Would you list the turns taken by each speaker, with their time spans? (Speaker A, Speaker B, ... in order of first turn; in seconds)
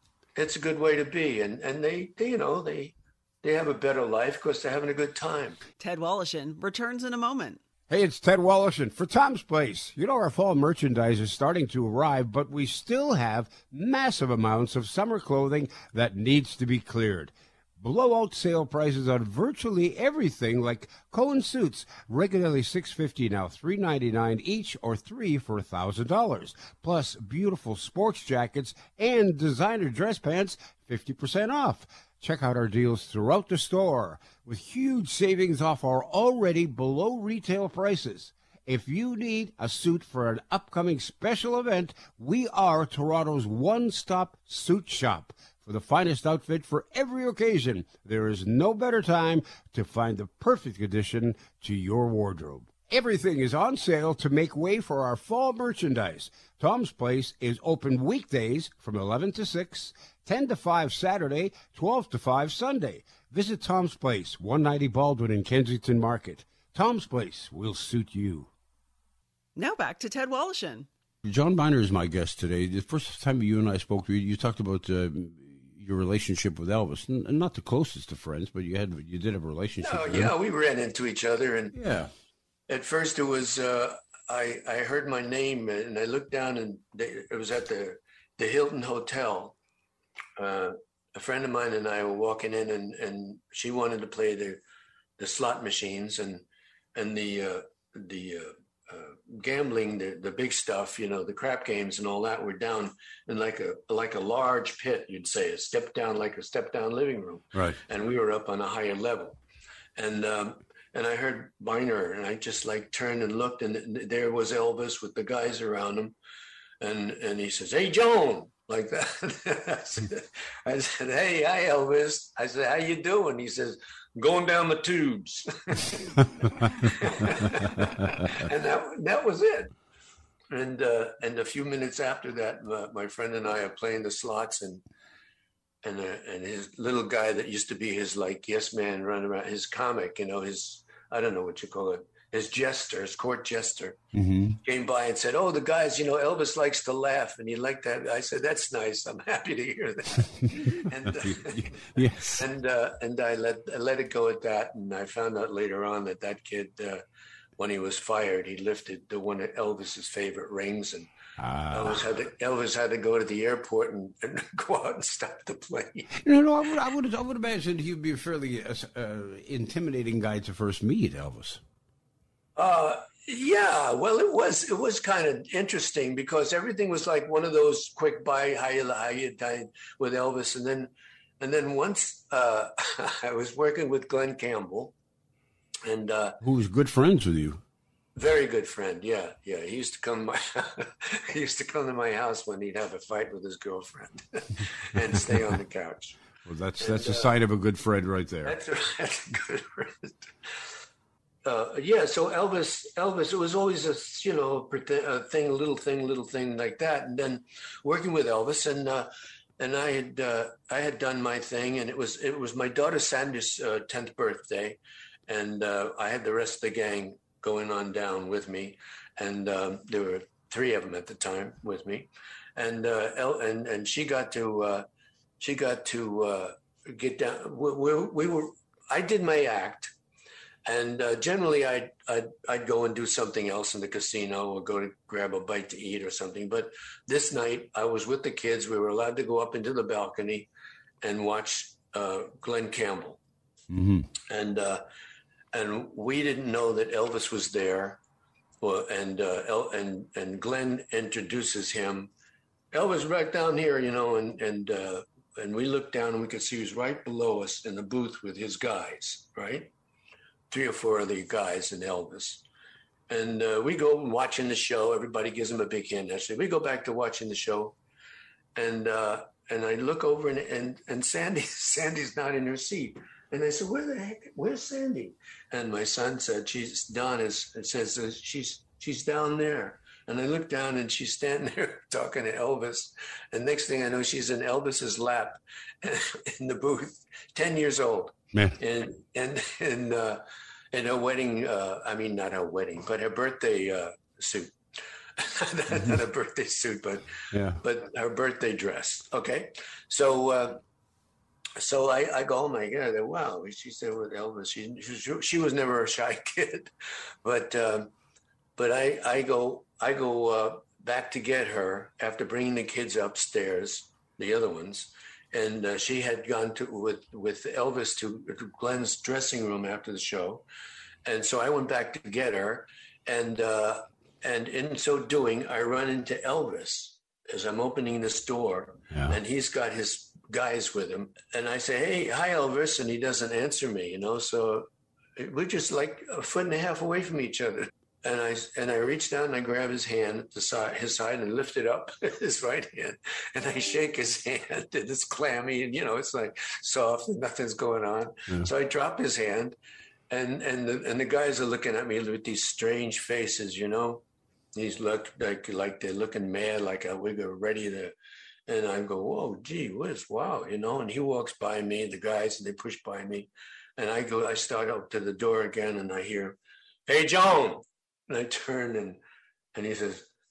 Speaker A: 0.3-5.6, 79.8-81.8, 82.7-89.6, 90.4-94.6, 95.2-109.4, 110.0-116.1, 116.8-129.7, 130.5-134.8, 135.8-144.0, 144.6-157.0, 157.6-161.1, 161.7-166.1, 172.6-184.9, 185.8-186.4, 188.2-196.2, 196.8-197.3, 198.4-200.3, 201.4-224.8, 225.4-229.9, 230.7-240.5, 241.0-243.2, 244.3-244.8, 245.5-248.0, 248.6-252.1, 252.7-259.7, 260.5-262.4, 263.1-267.8, 268.5-294.5, 295.1-300.6, 301.6-306.7, 307.2-307.9, 308.6-320.4, 321.0-349.6, 350.1-357.9, 358.5-369.0, 369.5-370.1
Speaker B: 5.8-7.6, 69.5-70.9
Speaker C: 7.9-68.5, 71.2-80.3, 81.7-82.1, 144.1-144.6, 150.5-152.4, 161.4-162.0, 166.1-171.6, 186.4-187.6, 196.4-198.6, 243.7-244.1, 288.3-288.6, 297.3-297.6